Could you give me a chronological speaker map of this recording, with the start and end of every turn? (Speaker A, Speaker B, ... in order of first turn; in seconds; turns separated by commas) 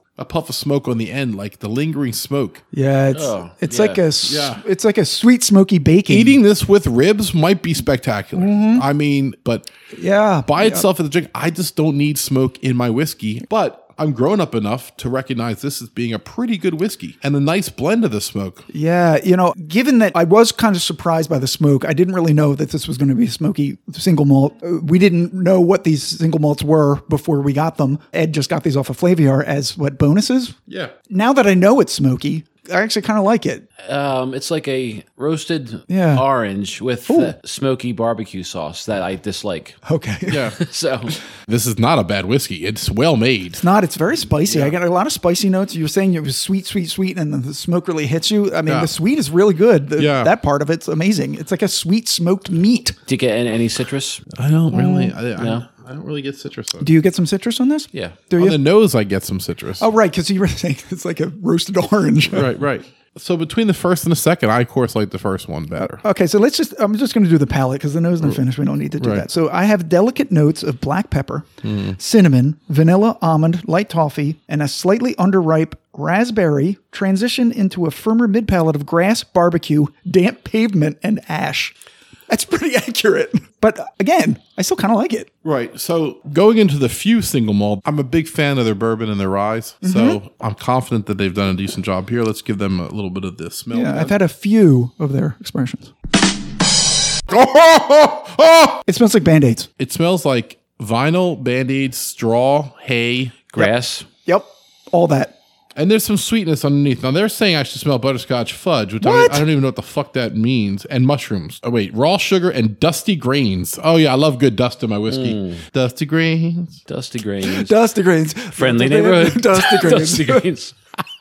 Speaker A: 0.1-2.6, Speaker B: 2.7-6.4, Speaker C: 3.1-4.0, Speaker A: 4.2-4.6, Speaker A: 6.1-9.7, Speaker B: 8.3-8.8, Speaker B: 9.9-10.8, Speaker A: 10.4-18.6, Speaker B: 18.7-30.6, Speaker A: 30.7-30.9, Speaker B: 31.1-33.6, Speaker C: 33.8-39.8, Speaker B: 35.9-36.2, Speaker B: 37.1-37.3, Speaker B: 39.8-40.5, Speaker A: 40.3-40.6, Speaker C: 40.6-41.2, Speaker A: 41.5-43.6, Speaker B: 43.6-53.0, Speaker A: 48.6-48.9, Speaker A: 50.0-50.3, Speaker C: 53.1-54.2, Speaker A: 54.3-56.9, Speaker B: 54.7-55.1, Speaker C: 55.4-55.6, Speaker B: 56.8-58.6, Speaker A: 58.4-59.9, Speaker B: 59.8-62.5, Speaker A: 62.3-66.0, Speaker B: 66.0-81.7, Speaker A: 69.0-69.2, Speaker A: 71.6-72.0, Speaker B: 82.3-85.3, Speaker A: 85.4-94.1, Speaker B: 89.8-90.2, Speaker B: 93.7-95.9, Speaker A: 97.3-98.8, Speaker B: 98.8-99.7, Speaker A: 99.8-103.5, Speaker C: 103.5-104.1, Speaker B: 104.2-105.3, Speaker A: 105.8-116.8, Speaker B: 109.0-109.4, Speaker C: 115.1-115.6, Speaker C: 116.9-117.8, Speaker B: 117.4-120.5, Speaker C: 118.6-120.7